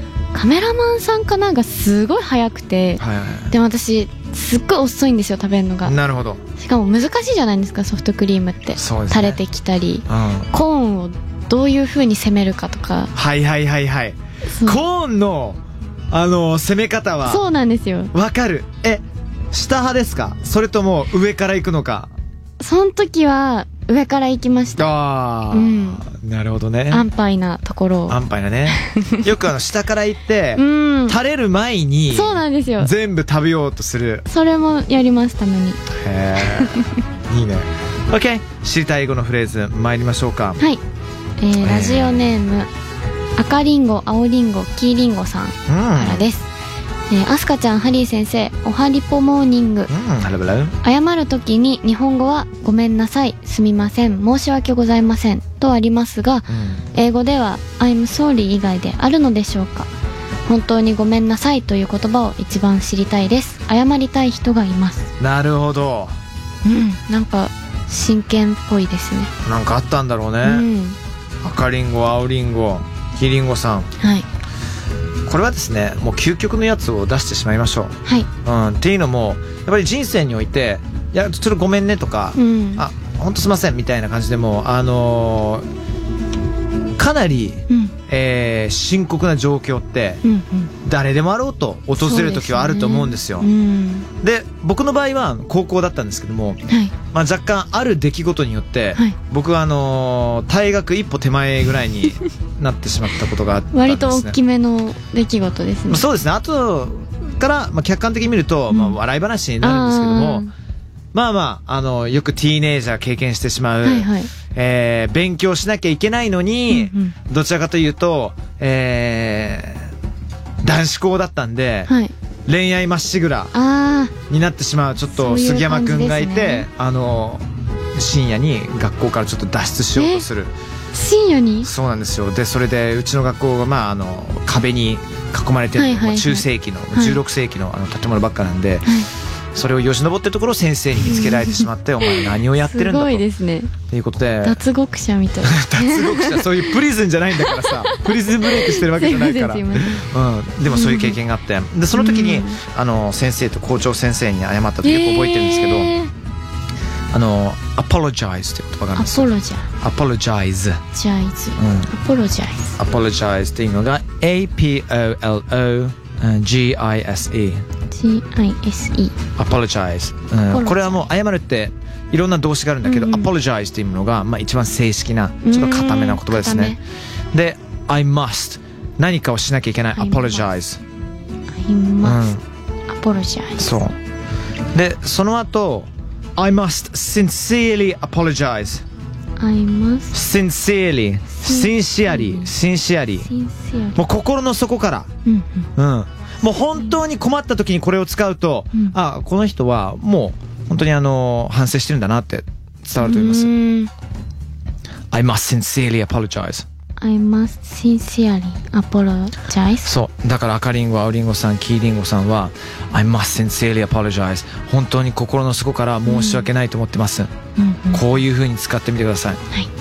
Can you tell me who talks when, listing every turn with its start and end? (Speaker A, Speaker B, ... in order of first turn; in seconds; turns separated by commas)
Speaker A: 0.3-6.0, Speaker B: 3.0-3.5, Speaker B: 5.8-6.4, Speaker A: 6.6-13.1, Speaker B: 8.7-9.4, Speaker B: 10.1-10.5, Speaker B: 13.1-17.4, Speaker A: 14.5-14.8, Speaker A: 17.2-18.1, Speaker B: 18.1-22.1, Speaker A: 22.6-24.9, Speaker B: 24.8-27.1, Speaker A: 25.5-26.0, Speaker A: 26.9-28.2, Speaker B: 28.1-34.2, Speaker A: 28.7-29.2, Speaker A: 30.5-31.2, Speaker A: 32.1-32.9, Speaker A: 34.3-35.8, Speaker B: 35.9-40.6, Speaker A: 36.4-37.0, Speaker A: 41.4-42.7, Speaker B: 41.6-42.4, Speaker A: 43.4-46.5, Speaker B: 45.7-46.3, Speaker A: 47.1-49.9, Speaker B: 49.9-50.8, Speaker A: 50.8-59.9, Speaker B: 56.5-56.8, Speaker A: 60.5-65.1, Speaker B: 65.2-66.2, Speaker A: 66.6-69.3, Speaker B: 69.4-70.7, Speaker A: 70.4-71.0, Speaker B: 71.4-73.9, Speaker A: 74.0-74.3, Speaker B: 75.2-85.7, Speaker A: 82.3-82.8, Speaker B: 87.0-90.2, Speaker A: 87.7-87.9, Speaker A: 90.2-90.7, Speaker B: 90.8-93.5, Speaker A: 92.0-94.1, Speaker B: 94.2-104.4, Speaker A: 96.7-96.9, Speaker A: 103.7-106.0, Speaker B: 105.9-110.5, Speaker A: 108.7-109.0, Speaker A: 109.6-110.5, Speaker B: 111.1-119.9, Speaker A: 113.8-114.3, Speaker A: 116.7-117.2, Speaker B: 120.6-121.9, Speaker A: 121.9-122.1, Speaker B: 122.5-123.5, Speaker A: 123.5-124.1, Speaker B: 124.3-130.5, Speaker A: 125.1-126.7, Speaker A: 129.9-130.2, Speaker A: 130.9-131.7, Speaker B: 131.6-139.0, Speaker A: 135.8-137.2, Speaker A: 138.8-139.1, Speaker B: 139.5-143.2, Speaker A: 141.0-143.7, Speaker B: 143.9-144.6, Speaker A: 144.4-146.7, Speaker B: 145.4-155.9, Speaker A: 147.4-150.1, Speaker A: 150.7-151.2, Speaker A: 151.9-152.6, Speaker A: 154.8-156.1, Speaker B: 157.1-159.3, Speaker A: 158.9-159.7, Speaker B: 159.8-160.8, Speaker A: 160.9-162.8, Speaker B: 161.6-161.9, Speaker B: 162.8-167.6, Speaker A: 167.9-169.2, Speaker B: 169.4-176.8, Speaker A: 170.5-171.1, Speaker A: 172.8-173.3, Speaker A: 175.4-176.8, Speaker B: 177.3-180.8, Speaker A: 179.9-180.5, Speaker A: 181.5-182.3, Speaker B: 182.0-182.4, Speaker A: 182.9-183.8, Speaker B: 183.6-183.9, Speaker B: 184.7-188.8, Speaker A: 189.4-190.1, Speaker B: 190.1-193.3, Speaker A: 191.4-192.5, Speaker A: 193.2-194.0, Speaker B: 193.9-195.1, Speaker A: 195.2-195.7, Speaker B: 195.8-203.5, Speaker A: 203.0-203.9, Speaker B: 205.1-206.6, Speaker A: 207.0-209.9, Speaker B: 209.8-217.3, Speaker A: 216.1-216.5, Speaker A: 217.6-218.1, Speaker B: 217.9-219.4